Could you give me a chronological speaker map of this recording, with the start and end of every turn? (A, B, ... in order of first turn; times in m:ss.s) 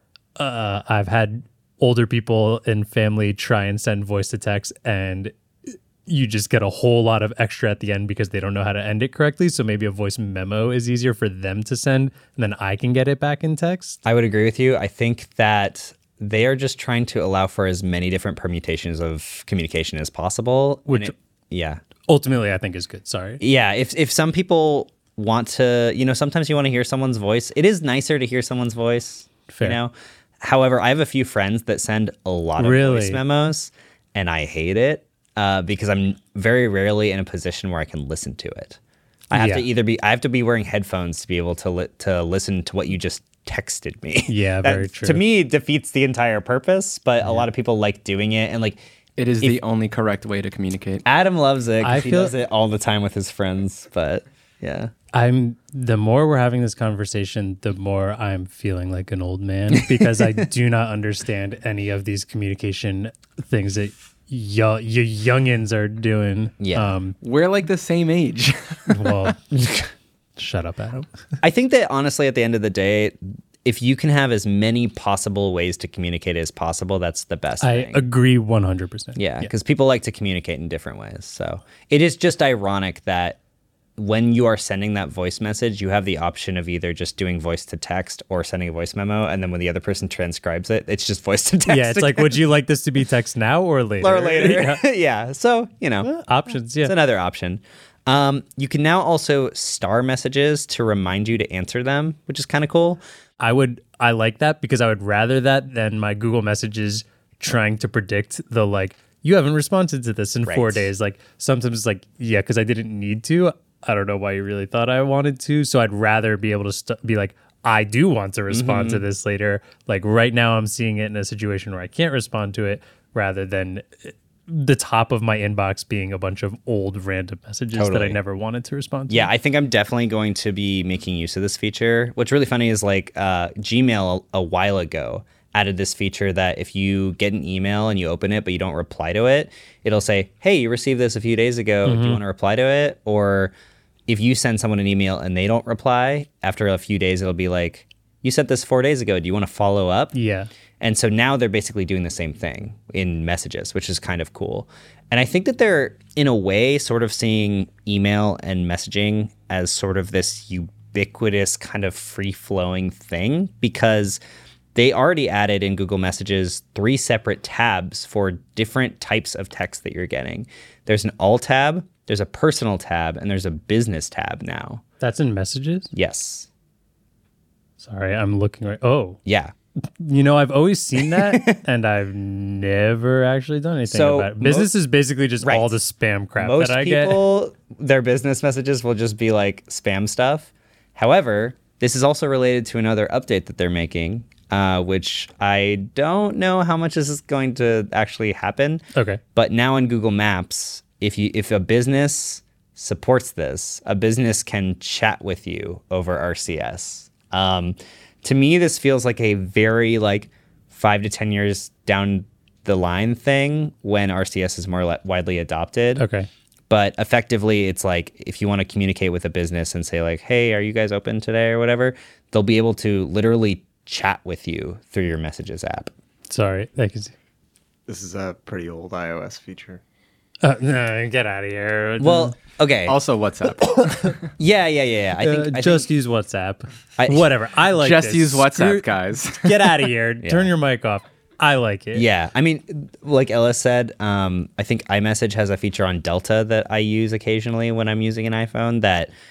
0:00.4-0:14.0 A
0:14.0-0:21.8 B
0:20.9-0:21.1 A
0:22.1-0:23.4 A
0:23.4-0:38.8 B
0:29.5-0:29.8 A
0:32.6-0:33.2 A
0:39.3-0:48.8 B
0:39.3-0:39.6 A
0:44.2-0:45.2 A
0:49.2-0:51.0 C
0:51.0-0:54.9 B
0:51.8-0:52.3 A
0:55.1-1:07.2 A
0:59.7-1:00.4 B
1:06.6-1:07.0 B
1:07.2-1:09.1 C
1:08.9-1:09.8 A
1:10.4-1:11.1 A
1:11.4-1:18.0 B
1:17.6-1:19.5 A
1:19.2-1:23.4 B
1:24.0-1:32.4 B
1:31.6-1:34.8 A
1:34.0-1:36.1 B
1:36.0-1:36.9 A
1:36.8-1:43.0 B
1:43.4-2:09.3 A
1:50.4-1:50.9 B
1:58.5-1:59.0 B
2:07.7-2:08.2 B
2:09.1-2:23.5 B
2:21.8-2:22.2 A
2:24.1-2:30.1 B
2:30.1-2:30.5 A
2:30.8-2:44.2 B
2:44.7-2:54.8 B
2:55.0-2:55.9 A
2:55.9-2:56.5 B
2:57.8-2:59.2 A
2:59.2-2:59.5 B
2:59.8-3:07.2 A
3:01.0-3:01.6 B
3:03.9-3:04.7 B
3:05.4-3:05.7 B
3:06.4-3:18.8 B
3:18.9-3:19.2 A
3:19.3-3:36.0 B
3:36.0-3:36.3 A
3:36.7-3:45.9 B
3:46.3-3:47.1 A
3:47.9-3:49.8 D
3:50.4-3:52.4 A
3:52.0-3:53.0 B
3:52.8-3:54.2 C
3:53.8-3:54.1 A
3:54.4-3:55.9 B
3:55.2-4:02.0 A
3:57.0-3:57.3 B
3:57.8-3:59.7 C
4:00.2-4:00.5 B
4:01.9-4:09.1 B